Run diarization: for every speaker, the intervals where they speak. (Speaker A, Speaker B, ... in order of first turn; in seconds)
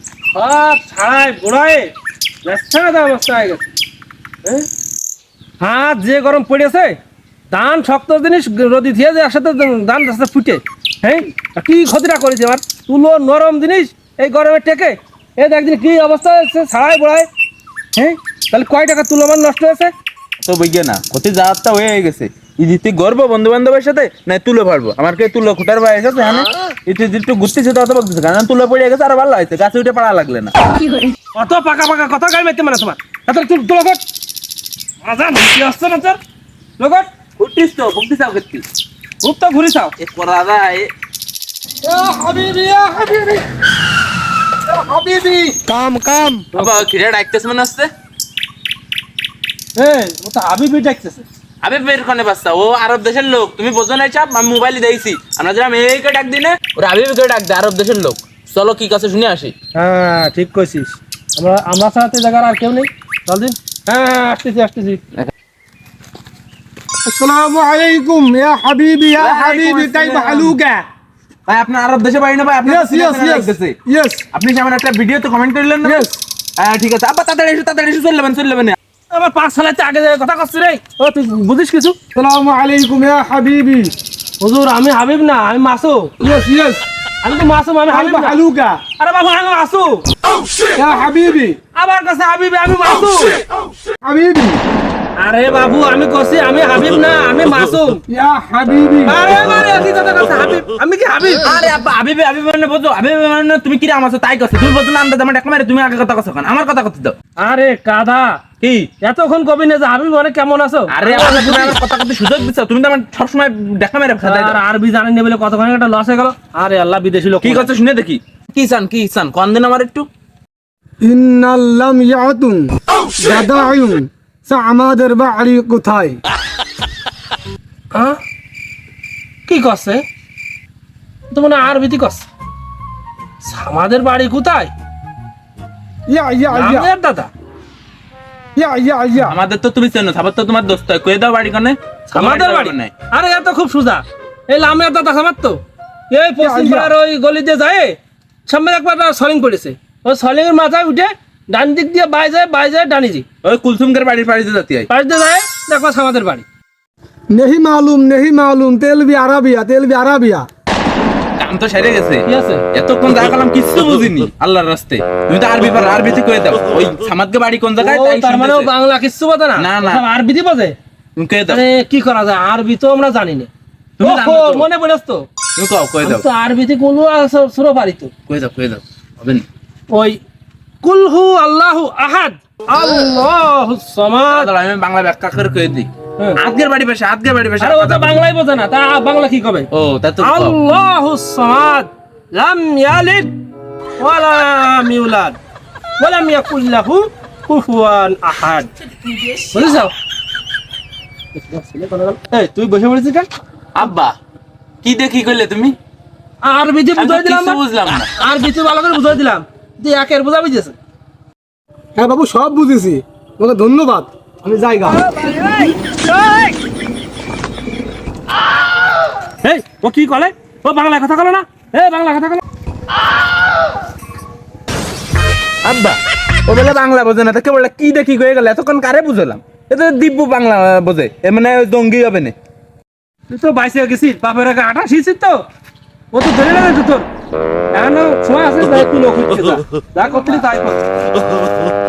Speaker A: 0.3-1.9, 2.4-3.7, 5.6-7.0, 7.5-17.3, 18.5-19.9, 31.3-34.0, 35.0-36.2, 36.8-37.1, 39.2-39.9, 44.9-45.5, 46.5-46.8, 49.8-51.2, 59.7-65.0, 79.1-82.0, 84.4-86.1, 87.2-88.4, 89.0-90.0, 91.7-93.4, 95.2-98.0, 99.1-101.5, 107.4-108.4, 109.0-111.8, 114.2-117.7, 127.9-128.2, 129.5-130.0, 131.3-132.3, 133.4-134.7, 136.5-137.3, 142.1-145.6, 146.1-153.2, 154.9-156.4, 162.2-162.6, 167.8-170.8, 171.5-173.5, 174.0-175.2, 176.0-178.1, 179.9-180.2, 180.8-184.5, 187.6-189.7, 190.2-193.4, 194.0-195.4, 196.0-198.7, 199.5-199.9, 201.3-203.3, 206.4-207.6, 208.1-210.8, 214.9-215.9, 219.4-222.4, 233.3-235.4, 236.1-237.1, 237.7-240.8
Speaker B: 20.4-30.5, 37.4-38.6, 40.0-40.9, 46.5-47.9, 51.6-59.5, 69.2-70.5, 71.5-73.7, 74.3-78.8, 101.4-107.1, 108.6-108.9, 110.9-114.6, 117.4-120.1, 139.2-142.9, 153.4-154.9, 161.4-168.7, 169.6-170.0, 171.2-171.6, 174.0-174.7, 175.6-176.2, 178.3-179.4, 184.3-188.2, 189.7-190.6, 203.7-204.1, 204.8-205.7, 207.0-208.1, 225.6-232.3
Speaker C: 41.9-43.4, 45.6-46.5, 67.0-70.8, 72.6-74.2, 75.8-76.2, 82.1-83.9, 86.2-86.8, 87.9-88.8, 90.7-91.6, 94.0-94.6, 98.1-99.2, 121.0-126.2, 136.1-136.9, 138.6-139.4, 146.4-146.9, 157.3-160.5, 211.9-215.0